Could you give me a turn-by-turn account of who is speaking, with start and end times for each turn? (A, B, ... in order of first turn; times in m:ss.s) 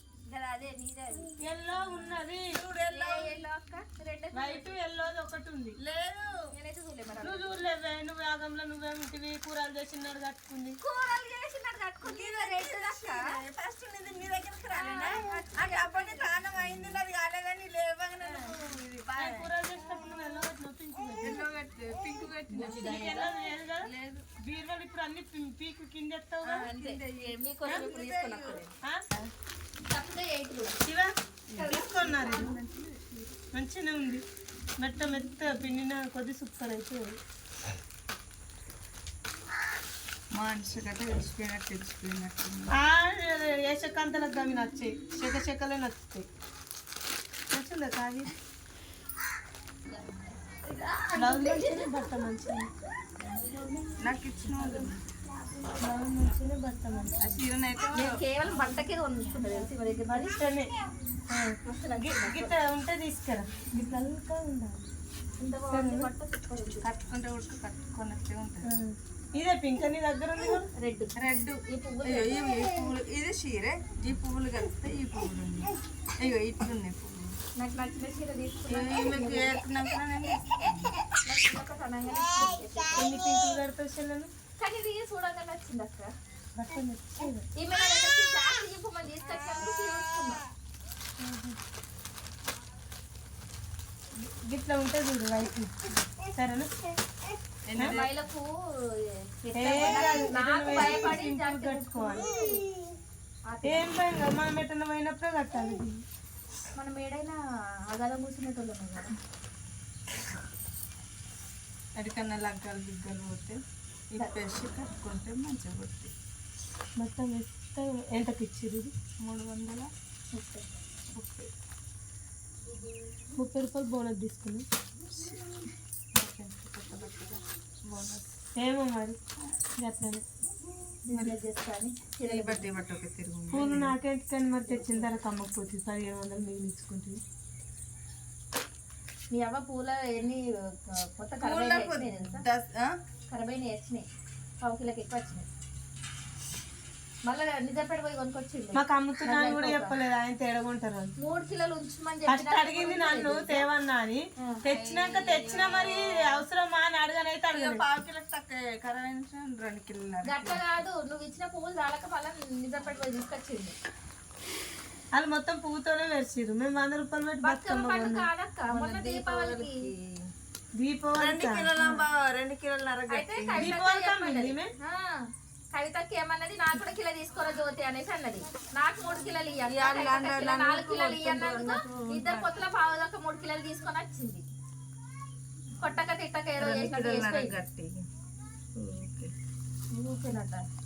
0:00.3-0:01.3 A
0:01.4-0:02.5 B
0:01.8-0:03.4 C
0:02.9-0:04.8 A
0:04.3-0:05.8 B
0:05.8-0:06.4 C
0:06.5-0:07.6 A
0:07.2-0:10.8 B
0:10.8-0:13.4 A
0:12.0-0:19.5 C
0:14.7-0:16.9 A
0:18.2-0:18.5 A
0:19.2-0:21.4 B
0:21.2-0:24.3 C
0:22.5-0:23.2 A
0:22.6-0:23.9 B
0:24.4-0:26.7 B
0:26.4-0:28.6 C
0:26.6-0:28.7 A
0:29.8-0:30.8 A
0:30.8-0:32.5 B
0:31.5-0:33.4 C
0:31.6-0:31.8 A
0:33.5-0:34.2 B
0:34.8-0:37.2 B
0:40.3-0:42.7 C
0:42.8-0:46.2 B
0:47.5-0:48.3 B
0:49.9-0:51.8 A
0:51.1-0:52.7 B
0:54.0-0:55.0 C
0:55.8-0:57.4 B
0:57.2-0:58.2 C
0:57.9-1:00.4 A
1:00.1-1:00.7 B
1:01.3-1:04.8 B
1:01.6-1:02.6 A
1:05.4-1:06.9 A
1:05.7-1:06.1 B
1:06.8-1:08.8 C
1:08.6-1:10.7 B
1:10.8-1:12.6 A
1:11.1-1:17.3 C
1:17.6-1:19.6 A
1:18.7-1:20.9 C
1:21.2-1:23.1 A
1:22.9-1:24.3 B
1:24.6-1:26.1 A
1:26.6-1:27.4 B
1:27.5-1:30.4 A
1:31.2-1:31.6 B
1:34.2-1:36.7 B
1:37.6-1:38.1 C
1:37.8-1:42.6 A
1:39.5-1:42.3 B
1:43.5-1:43.9 A
1:43.6-1:46.0 B
1:46.7-1:47.4 A
1:47.9-1:49.1 A
1:52.0-1:53.6 C
1:54.1-1:56.1 C
1:57.0-1:58.9 B
1:59.2-1:59.9 C
2:00.3-2:00.7 A
2:01.1-2:01.5 C
2:03.3-2:04.6 B
2:05.1-2:05.4 C
2:06.1-2:08.3 C
2:08.6-2:09.2 B
2:09.8-2:10.2 B
2:11.1-2:12.7 A
2:11.1-2:11.4 C
2:12.2-2:14.0 C
2:13.5-2:17.2 B
2:14.6-2:15.1 A
2:19.3-2:22.4 A
2:21.4-2:22.9 C
2:23.3-2:24.0 A
2:24.6-2:25.5 A
2:27.3-2:30.0 A
2:28.7-2:31.1 B
2:31.2-2:33.7 A
2:32.3-2:37.8 B
2:34.6-2:36.4 C
2:37.5-2:40.6 C
2:40.2-2:43.7 A
2:45.1-2:48.3 B
2:47.4-2:49.9 A
2:48.7-2:50.2 C
2:50.8-2:51.7 B
2:51.2-2:53.7 C
2:53.1-3:04.4 A
2:53.5-2:54.7 B
2:59.7-3:02.6 C
3:05.8-3:07.6 A
3:06.6-3:08.0 C
3:08.8-3:09.3 C
3:09.9-3:10.6 A